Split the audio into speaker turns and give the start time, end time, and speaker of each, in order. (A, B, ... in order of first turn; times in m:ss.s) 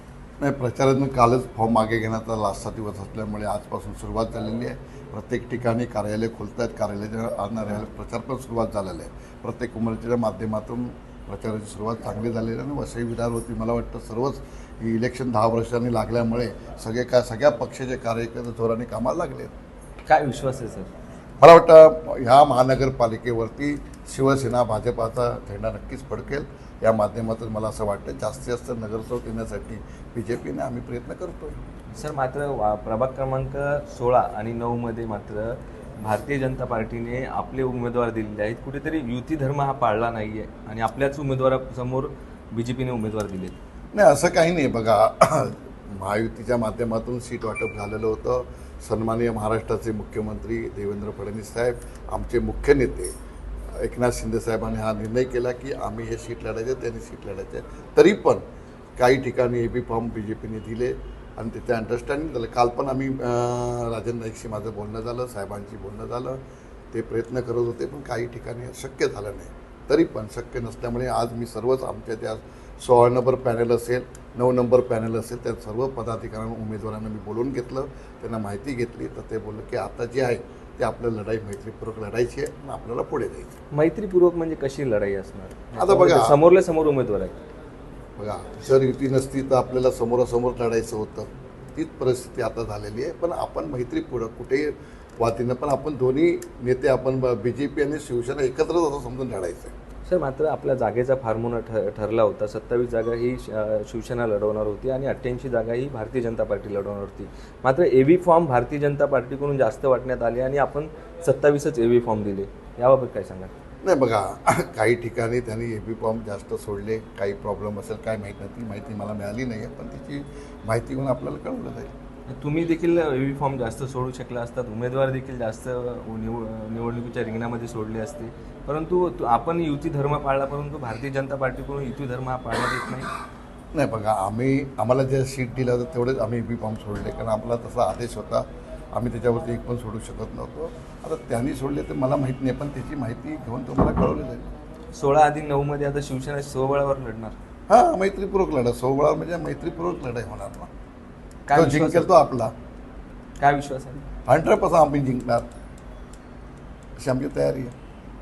0:00.4-0:19.5 A
0:20.1-0:20.9 B
0:21.4-0:31.6 A
0:31.9-0:43.6 B
0:43.9-0:53.1 A
0:53.8-0:58.4 A
0:59.0-1:06.4 A
1:06.9-1:23.5 A
1:23.7-1:27.4 B
1:25.8-1:26.4 A
1:28.2-1:39.7 A
1:40.1-1:53.5 B
1:53.8-2:01.9 A
2:02.3-2:13.1 B
2:13.7-2:24.5 A
2:24.9-2:27.4 B
2:27.7-2:30.7 A
2:31.5-2:32.1 B
2:31.5-2:32.5 A
2:33.4-2:34.0 B
2:34.3-2:35.5 A
2:37.0-2:37.7 A